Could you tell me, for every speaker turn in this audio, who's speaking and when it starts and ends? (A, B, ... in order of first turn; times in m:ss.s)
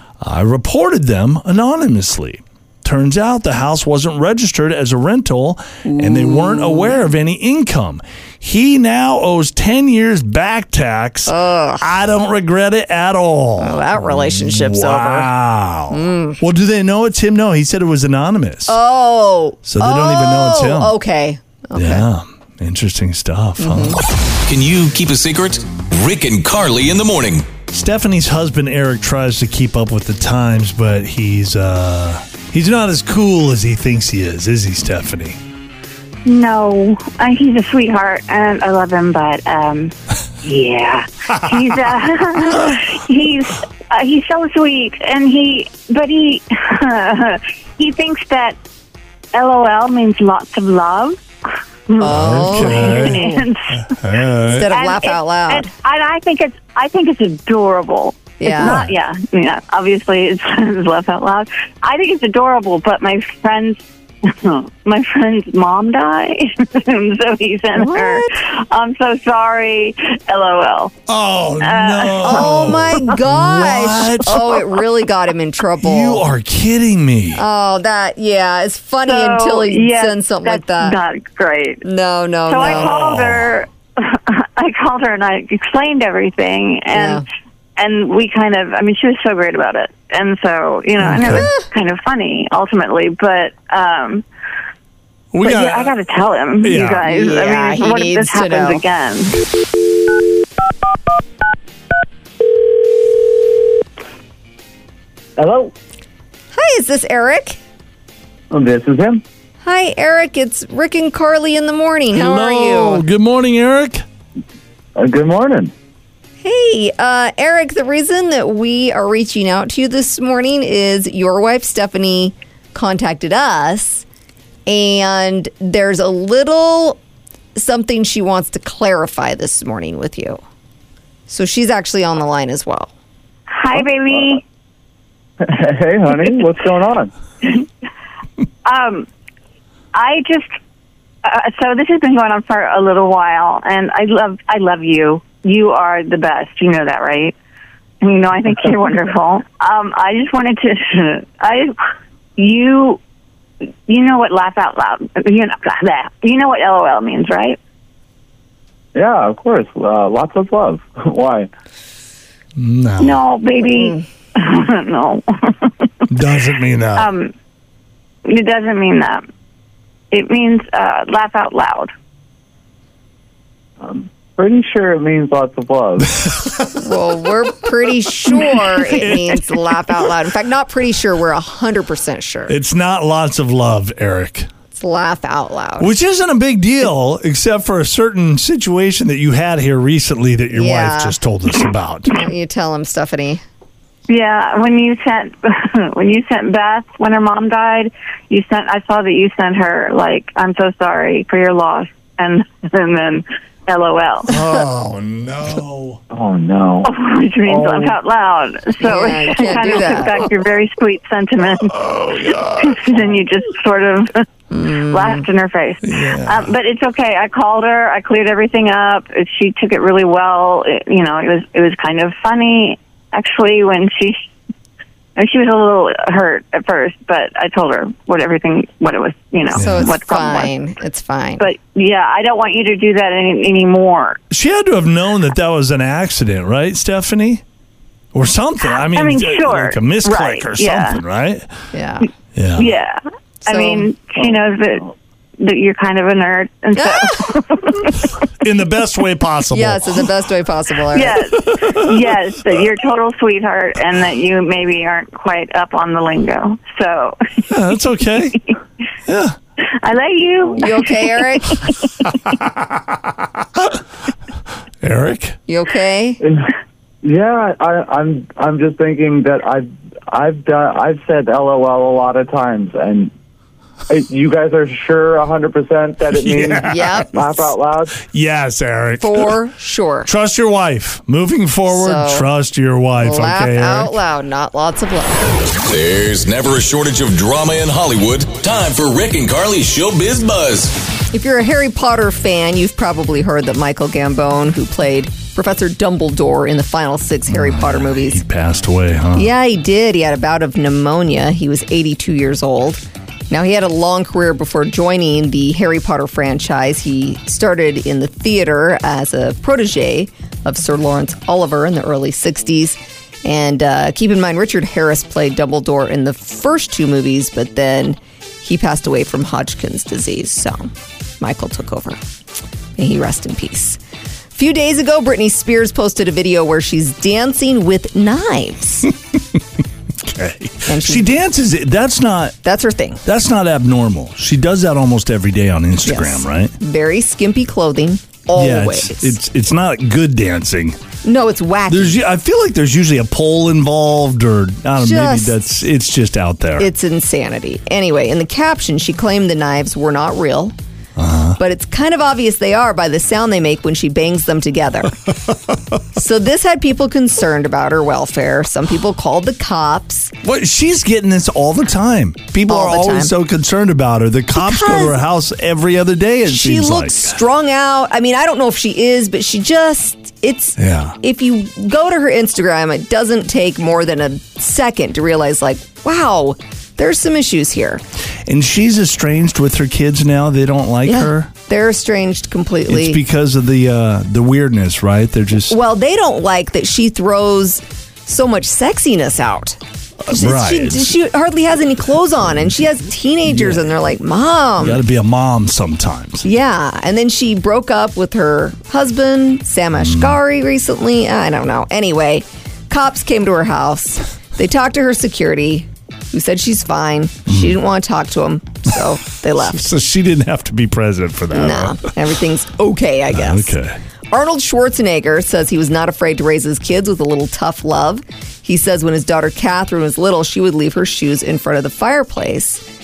0:00.2-0:18.8 A
0:05.8-0:07.0 B
0:11.3-0:11.9 B
0:13.6-0:15.3 B
0:15.9-0:16.4 B
0:18.7-0:22.0 B
0:19.6-0:21.0 A
0:21.7-0:24.0 A
0:23.6-0:24.0 B
0:24.4-0:27.5 C
0:27.7-0:35.4 A
0:36.2-0:48.6 D
0:49.3-0:51.2 D
0:51.9-0:53.9 D
0:52.0-0:53.4 B
0:52.0-0:53.2 A
0:53.8-0:54.7 A
0:54.5-0:55.7 B
0:54.6-1:10.9 D
0:58.4-0:58.8 B
0:58.6-0:58.9 A
1:07.8-1:08.3 B
1:11.1-1:14.7 A
1:11.6-1:12.5 D
1:12.2-1:16.2 B
1:15.8-1:17.4 A
1:17.3-1:21.0 B
1:19.1-1:21.8 D
1:21.8-1:23.0 B
1:22.5-1:27.2 D
1:22.6-1:23.6 A
1:26.9-1:27.2 B
1:27.8-1:34.2 D
1:31.0-1:31.5 A
1:31.2-1:31.6 B
1:35.3-1:35.9 A
1:35.4-1:39.4 D
1:36.6-1:37.0 A
1:37.0-1:38.8 B
1:45.4-1:45.7 E
1:46.5-1:47.6 B
1:48.5-1:49.2 E
1:49.6-1:53.0 B
1:52.1-1:54.0 A
1:55.0-1:55.7 E
1:56.4-2:04.0 B
2:04.7-2:07.0 B
2:07.6-2:10.4 B
2:11.3-2:12.9 B
2:13.5-2:14.4 D
2:13.7-2:14.4 E
2:15.4-2:17.1 E
2:18.6-2:19.1 D
2:19.9-2:20.5 D
2:21.2-2:27.3 D
2:28.0-2:31.8 D
2:32.4-2:33.0 D
2:33.9-2:37.6 D
2:38.9-2:41.5 E
2:42.6-2:43.2 A
2:43.0-2:45.9 D
2:43.7-2:44.0 B
2:46.1-2:47.1 A
2:47.0-2:47.3 D
2:48.2-2:49.2 D
2:50.1-2:51.9 D
2:53.8-2:56.3 E
2:56.7-3:02.5 B
2:58.3-3:00.1 A
3:02.5-3:04.5 A
3:04.7-3:05.9 B
3:05.8-3:12.3 A
3:10.5-3:11.2 B
3:12.1-3:13.4 B
3:14.1-3:24.3 D
3:24.3-3:26.0 A
3:26.1-3:26.9 E
3:26.8-3:34.2 D
3:27.4-3:28.0 E
3:28.8-3:30.2 B
3:31.5-3:33.0 A
3:34.5-3:35.2 B
3:34.8-3:44.2 D
3:35.8-3:36.5 A
3:45.2-3:50.5 D
3:49.5-3:49.9 A
3:49.5-3:51.5 B
3:51.4-3:54.2 D
3:54.3-3:57.4 A
3:58.1-4:01.5 A
3:58.8-4:01.0 D
4:01.7-4:02.1 B
4:02.3-4:02.7 A
4:02.6-4:08.1 D
4:03.4-4:03.9 B
4:06.7-4:07.4 B
4:08.4-4:10.1 A
4:09.5-4:11.3 B
4:10.9-4:17.4 D
4:11.4-4:12.1 A
4:17.5-4:18.4 A
4:19.0-4:19.4 A
4:19.6-4:21.9 D
4:20.6-4:21.7 B
4:24.8-4:25.4 A
4:25.5-4:26.2 B
4:26.2-4:26.5 E
4:27.0-4:33.1 E
4:33.9-4:38.0 E
4:36.1-4:37.0 A
4:36.6-4:37.2 B
4:37.9-4:39.4 A
4:39.0-4:40.1 B
4:40.0-4:44.0 A
4:41.7-4:42.3 B
4:43.0-4:45.3 B
4:45.6-4:50.7 C
4:51.1-4:58.2 B
4:57.3-4:59.3 A
4:59.1-5:20.7 B
5:21.2-5:22.0 B
5:22.8-5:23.8 B
5:24.3-5:28.9 B
5:30.0-5:32.4 A
5:30.6-5:31.1 B
5:32.4-5:33.0 B
5:33.0-5:36.5 A
5:35.8-5:39.2 B
5:38.3-5:40.8 A
5:41.0-5:42.0 B
5:41.7-5:46.7 A
5:44.8-5:45.3 B
5:46.6-5:50.5 B
5:51.0-5:51.4 A
5:51.4-5:55.0 B
5:55.9-6:00.1 B
6:00.2-6:07.2 A
6:02.5-6:03.1 B
6:04.3-6:05.0 B
6:06.3-6:17.8 B
6:10.6-6:11.0 A
6:18.2-6:21.3 A
6:20.8-6:23.0 B
6:22.7-6:25.6 A
6:25.5-6:29.6 B
6:30.0-6:30.9 A
6:30.1-6:34.8 B
6:33.2-6:33.6 A
6:34.6-6:36.2 A
6:36.2-6:49.7 B
6:39.7-6:40.2 A
6:47.3-6:47.6 A
6:49.4-6:51.9 A
6:51.3-6:53.6 B
6:53.1-6:53.8 A
6:54.1-7:02.6 B